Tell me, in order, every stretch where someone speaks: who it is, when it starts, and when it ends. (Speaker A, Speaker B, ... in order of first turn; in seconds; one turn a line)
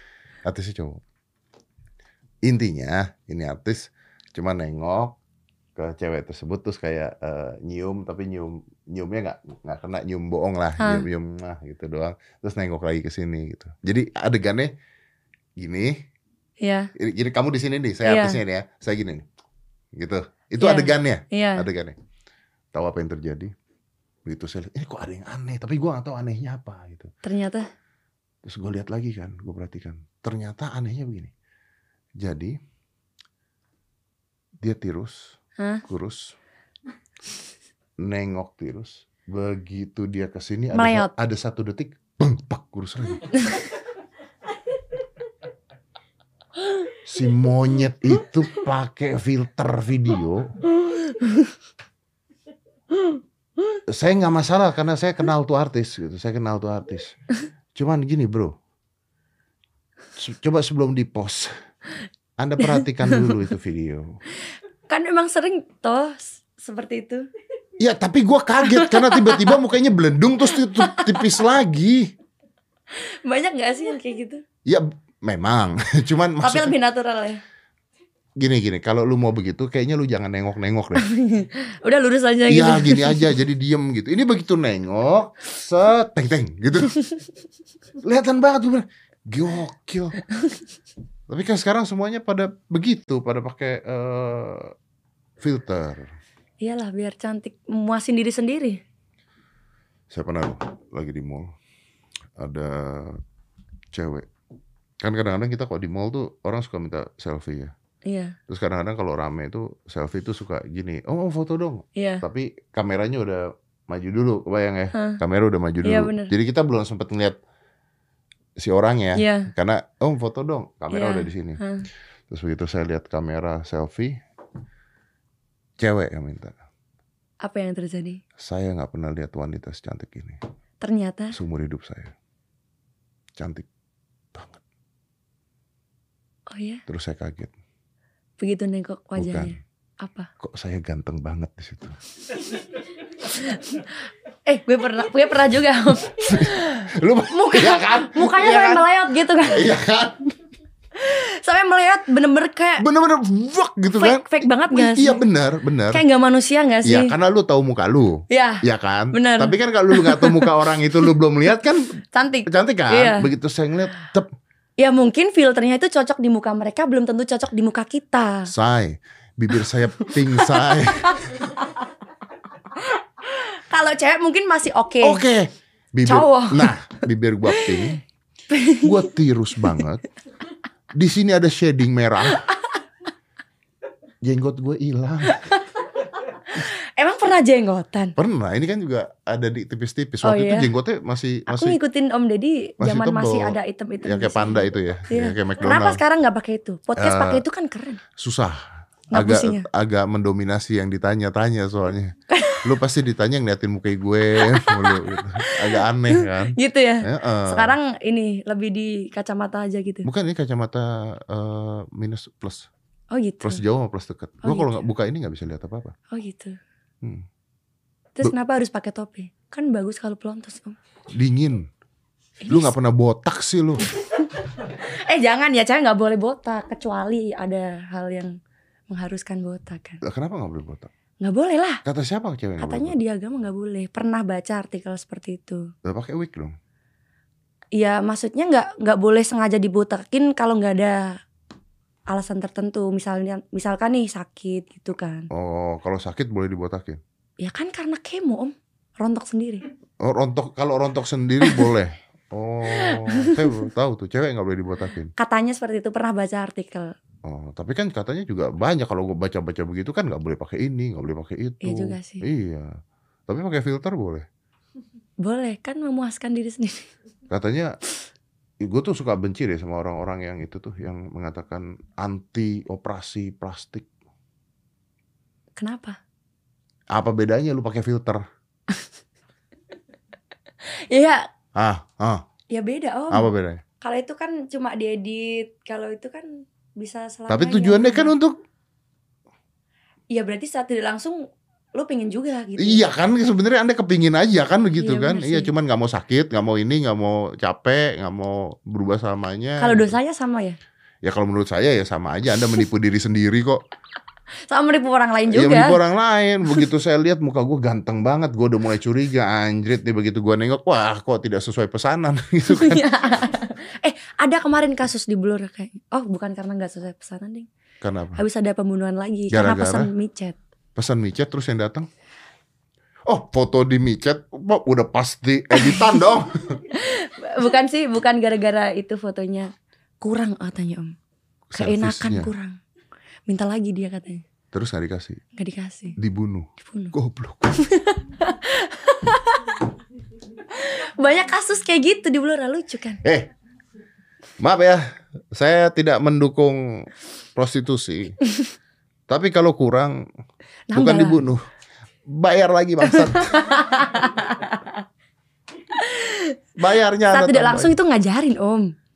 Speaker A: 0.4-1.0
Speaker A: 2.4-5.2
Speaker A: 5.8-14.7
Speaker B: 10.8-11.1
Speaker A: 15.6-16.0
Speaker B: 16.6-16.9
Speaker A: 16.9-19.2
Speaker B: 18.0-18.4
Speaker A: 19.9-21.9
Speaker B: 20.6-21.7
Speaker A: 22.7-23.5
Speaker A: 24.2-27.1
Speaker B: 27.2-27.7
Speaker A: 28.4-31.3
Speaker A: 32.2-32.6
Speaker A: 34.6-36.4
Speaker B: 35.6-35.8
Speaker A: 38.0-43.4
Speaker B: 40.7-41.1
Speaker A: 47.0-50.6
Speaker B: 50.8-51.5
Speaker A: 53.9-57.2
Speaker A: 57.7-58.5
Speaker A: 60.2-61.5
Speaker A: 62.4-64.2
Speaker B: 62.6-63.4
Speaker B: 64.9-67.3
Speaker A: 67.8-72.1
Speaker B: 68.6-69.6
Speaker B: 70.5-71.4
Speaker B: 72.9-74.4
Speaker A: 74.7-76.7
Speaker B: 76.4-77.4
Speaker A: 78.4-81.1
Speaker B: 81.0-83.3
Speaker A: 82.5-87.0
Speaker A: 88.0-90.2
Speaker A: 91.3-94.7
Speaker A: 95.4-96.1
Speaker B: 96.6-98.8
Speaker A: 100.1-101.5
Speaker A: 102.4-103.2
Speaker A: 103.9-104.3
Speaker A: 105.0-107.7
Speaker B: 108.0-108.4
Speaker A: 108.5-117.4
Speaker B: 112.0-112.2
Speaker B: 114.9-115.2
Speaker B: 115.8-116.3
Speaker A: 118.6-121.6
Speaker B: 119.2-119.5
Speaker B: 120.9-121.8
Speaker A: 122.3-124.2
Speaker A: 125.8-126.6
Speaker B: 127.4-128.2
Speaker A: 128.4-130.4
Speaker B: 130.8-131.4
Speaker A: 131.3-132.1
Speaker A: 133.4-133.7
Speaker A: 134.3-134.6
Speaker B: 136.5-136.8
Speaker A: 136.9-137.5
Speaker B: 138.4-140.3
Speaker A: 139.2-139.6
Speaker A: 140.4-142.0
Speaker B: 143.2-143.9
Speaker B: 144.4-149.7
Speaker A: 146.1-148.8
Speaker A: 149.4-150.3
Speaker B: 150.9-152.8
Speaker A: 152.8-156.0
Speaker B: 153.9-155.2
Speaker B: 155.9-157.1
Speaker A: 156.8-164.3
Speaker B: 158.3-160.5
Speaker B: 162.1-163.3
Speaker B: 164.8-168.5
Speaker A: 168.4-171.5
Speaker B: 170.2-171.8
Speaker B: 172.7-175.2
Speaker A: 175.0-178.0
Speaker B: 176.1-176.7
Speaker B: 177.5-178.0
Speaker B: 178.5-179.1
Speaker A: 178.8-180.0
Speaker A: 180.9-182.5
Speaker A: 184.2-185.5
Speaker B: 185.3-185.6
Speaker B: 186.4-188.1
Speaker A: 188.2-191.8
Speaker B: 190.2-190.7
Speaker B: 191.5-198.0
Speaker A: 192.8-196.0
Speaker A: 197.0-197.4
Speaker A: 198.2-207.7
Speaker B: 199.1-199.7
Speaker B: 202.3-202.7
Speaker B: 204.3-210.1
Speaker A: 210.0-212.7
Speaker B: 213.1-213.6
Speaker A: 213.4-215.9
Speaker B: 214.4-214.8
Speaker B: 216.1-216.6
Speaker B: 218.1-220.8
Speaker A: 221.1-221.7
Speaker B: 222.4-222.7
Speaker A: 222.5-223.9
Speaker B: 224.2-228.4
Speaker B: 228.9-230.0
Speaker A: 230.0-230.9
Speaker B: 231.2-231.8
Speaker A: 231.8-233.0
Speaker B: 232.6-235.7
Speaker A: 235.8-236.5
Speaker B: 237.7-241.2
Speaker B: 242.1-245.3
Speaker A: 245.3-247.0
Speaker B: 247.4-249.7
Speaker A: 250.0-255.1
Speaker B: 251.4-251.7
Speaker B: 252.7-253.5
Speaker B: 255.2-256.9
Speaker A: 257.2-262.7
Speaker B: 261.6-262.2
Speaker A: 263.3-264.3
Speaker B: 265.2-266.9
Speaker A: 267.3-267.8
Speaker A: 268.6-273.9
Speaker B: 275.6-276.0
Speaker A: 276.9-278.2
Speaker B: 280.6-281.3
Speaker A: 281.6-282.2
Speaker B: 282.5-283.3
Speaker A: 283.1-283.6
Speaker B: 283.8-288.1
Speaker A: 287.3-288.4
Speaker B: 290.1-292.8
Speaker A: 292.6-300.0
Speaker B: 294.8-295.5
Speaker B: 299.6-300.6
Speaker A: 301.0-303.6
Speaker B: 304.4-305.8
Speaker A: 305.3-313.2
Speaker B: 312.5-317.5
Speaker A: 317.8-318.2
Speaker B: 318.1-320.4
Speaker A: 319.3-319.9
Speaker A: 320.8-321.9
Speaker A: 323.1-326.6
Speaker B: 325.5-326.0
Speaker B: 326.7-330.9
Speaker A: 331.5-332.3
Speaker B: 331.5-332.6
Speaker B: 333.3-334.2
Speaker A: 334.5-335.2
Speaker B: 335.3-336.0
Speaker A: 336.0-337.6
Speaker B: 336.6-336.9
Speaker B: 337.6-339.6
Speaker B: 340.5-343.0
Speaker A: 343.0-343.3
Speaker A: 344.4-348.2
Speaker A: 349.1-350.0
Speaker B: 350.7-351.2
Speaker A: 350.7-351.4
Speaker A: 352.1-353.7
Speaker B: 352.8-354.8
Speaker B: 355.7-356.4
Speaker A: 356.6-357.7
Speaker B: 357.1-358.7